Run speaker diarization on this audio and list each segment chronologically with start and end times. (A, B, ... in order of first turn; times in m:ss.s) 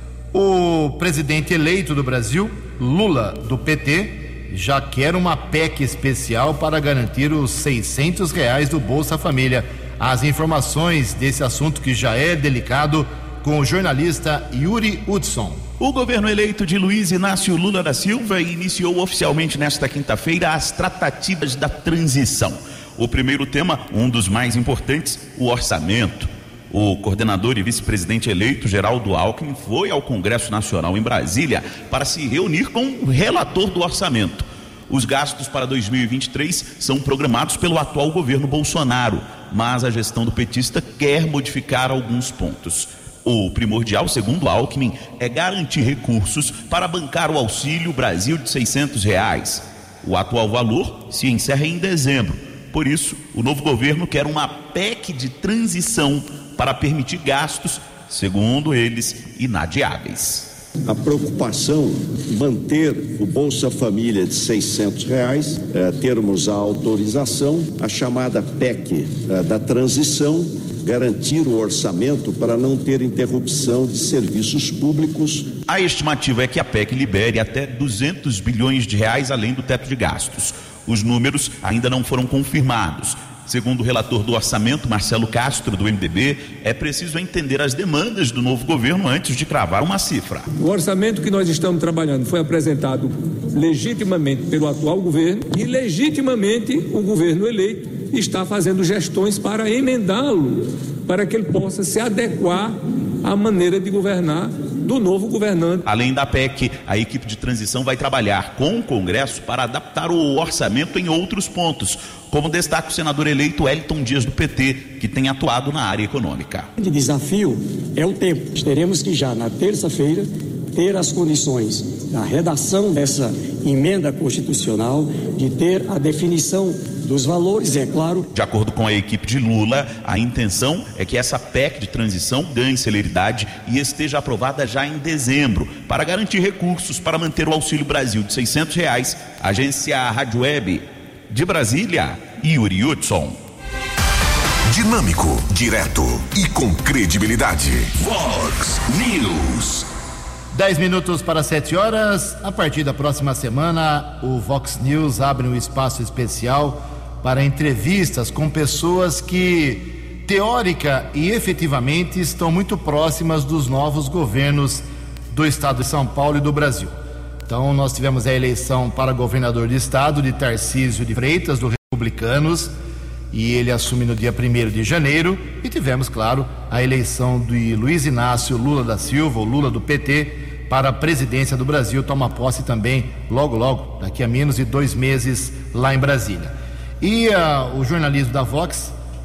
0:00.3-0:15.6 A
0:15.8-1:00.5 B
1:00.8-1:15.5 C
1:15.7-1:30.5 B
1:30.6-1:45.8 D
1:45.9-1:56.7 B
1:56.8-2:08.3 E
2:08.3-2:23.4 B
2:24.7-2:29.8 F
2:30.5-2:47.0 A
2:47.5-2:52.7 A
2:53.3-3:09.0 A